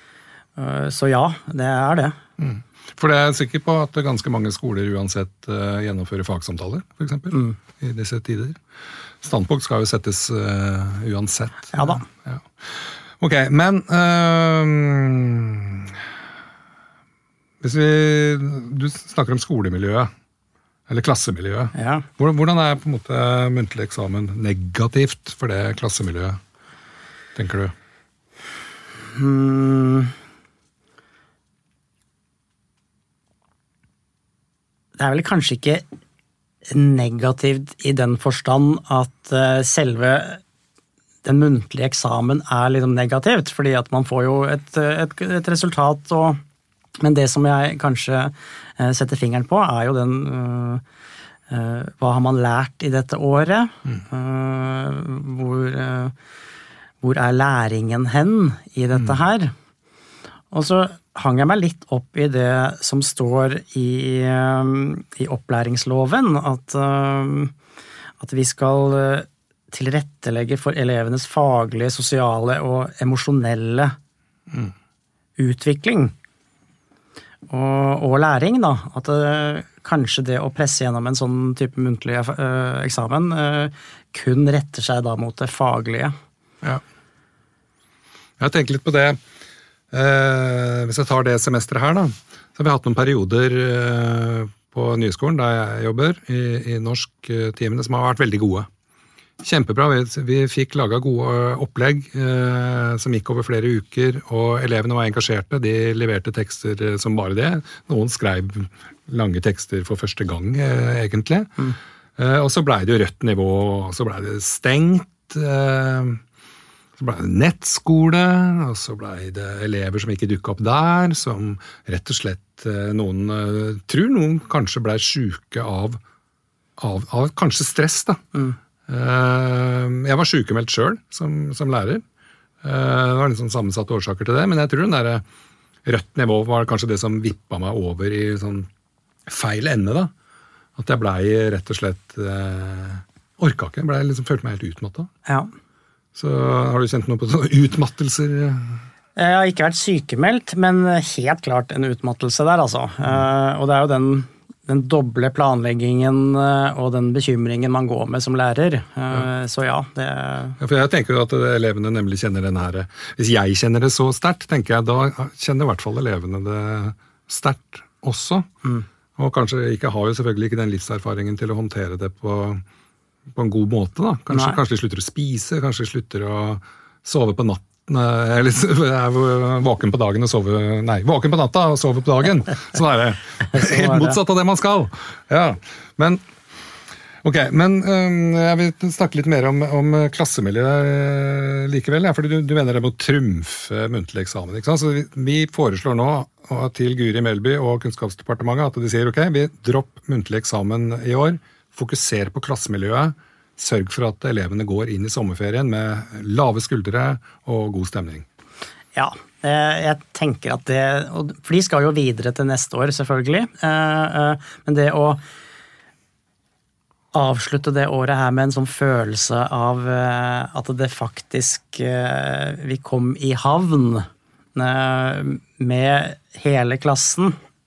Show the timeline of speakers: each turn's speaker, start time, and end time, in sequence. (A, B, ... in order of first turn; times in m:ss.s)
0:00.6-0:02.1 A
0:02.4-0:08.6 B
0:09.2-0:12.5 B
0:11.7-0:12.0 A
0:13.2-0:16.0 B
0:17.6-0:20.1 B
0:20.9-0:26.4 B
0:21.7-0:22.1 A
0:27.4-0:27.7 B
0:29.1-0:30.1 A
0:35.0-0:35.8 A
0:36.7-0:40.4 A
0:41.2-0:46.4 A
0:47.0-0:50.8 A
0:51.5-0:56.1 A
0:57.0-0:59.5 A
1:00.5-1:07.5 A
1:08.2-1:13.9 A
1:15.4-1:16.1 A
1:17.5-1:26.1 A
1:28.4-1:29.2 B
1:29.9-1:38.7 B
1:39.4-1:56.2 B
1:57.0-2:06.0 B
2:06.8-2:08.2 B
2:08.9-2:12.0 B
2:12.6-2:15.2 B
2:15.8-2:18.7 B
2:19.3-2:20.1 B
2:20.8-2:25.1 B
2:26.1-2:28.8 B
2:29.2-2:40.6 A
2:40.6-2:48.4 B
2:49.2-2:52.6 B
2:53.3-3:06.2 B
2:54.3-2:54.6 A
3:03.5-3:04.2 A
3:07.2-3:28.2 B
3:28.9-3:35.2 A
3:37.1-3:47.4 A